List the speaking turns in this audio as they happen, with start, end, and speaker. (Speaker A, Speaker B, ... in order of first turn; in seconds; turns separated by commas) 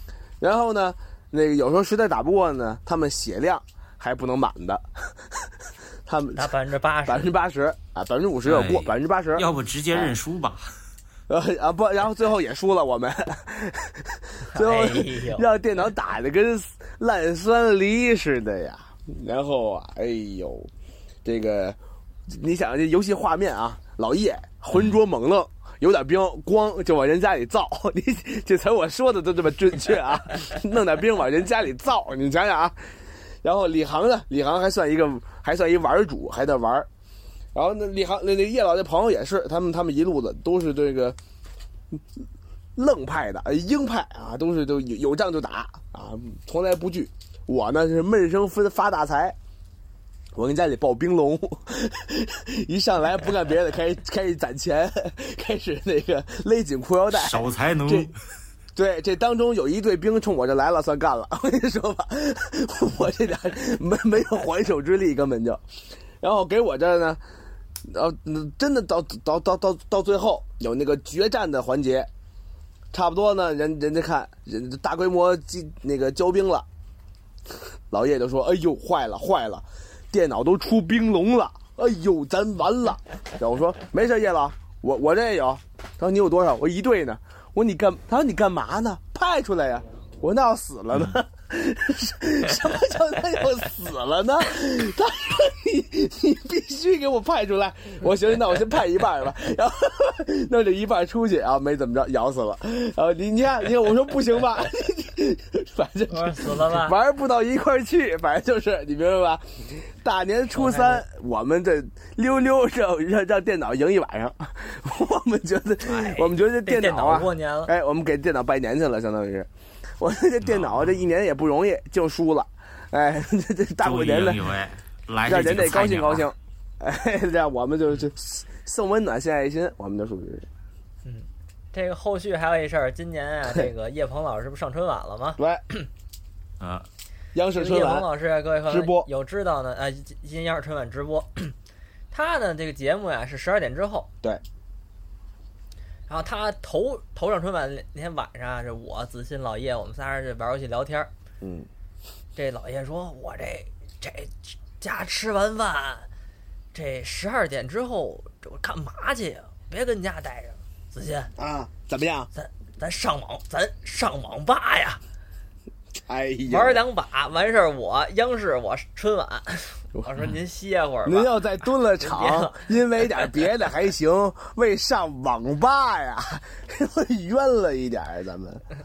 Speaker A: 0.4-5.5, Speaker A: 6.1-10.2, Speaker B: 6.4-7.3, Speaker C: 8.4-10.7, Speaker A: 11.3-20.7, Speaker B: 14.5-15.5, Speaker A: 21.2-36.9, Speaker A: 37.5-41.2, Speaker A: 42.8-49.4, Speaker A: 50.4-58.1, Speaker C: 57.1-58.1, Speaker A: 58.8-65.6, Speaker A: 66.2-67.2, Speaker A: 67.8-72.1, Speaker A: 72.9-76.7, Speaker A: 77.9-124.4, Speaker C: 90.9-91.2, Speaker B: 106.1-107.0, Speaker B: 110.5-111.1, Speaker B: 115.8-117.7, Speaker C: 120.4-121.0, Speaker C: 123.8-126.3, Speaker A: 125.2-130.5, Speaker B: 131.1-135.8, Speaker A: 135.4-135.7, Speaker C: 136.6-136.9, Speaker A: 137.3-138.1, Speaker B: 137.5-141.6, Speaker A: 138.7-139.1, Speaker B: 142.1-144.1, Speaker B: 146.1-151.1, Speaker A: 151.4-151.7, Speaker B: 152.4-156.1, Speaker B: 156.7-161.3, Speaker A: 161.4-162.3, Speaker B: 162.3-165.0, Speaker A: 166.1-166.8, Speaker B: 166.5-173.3, Speaker A: 171.1-178.7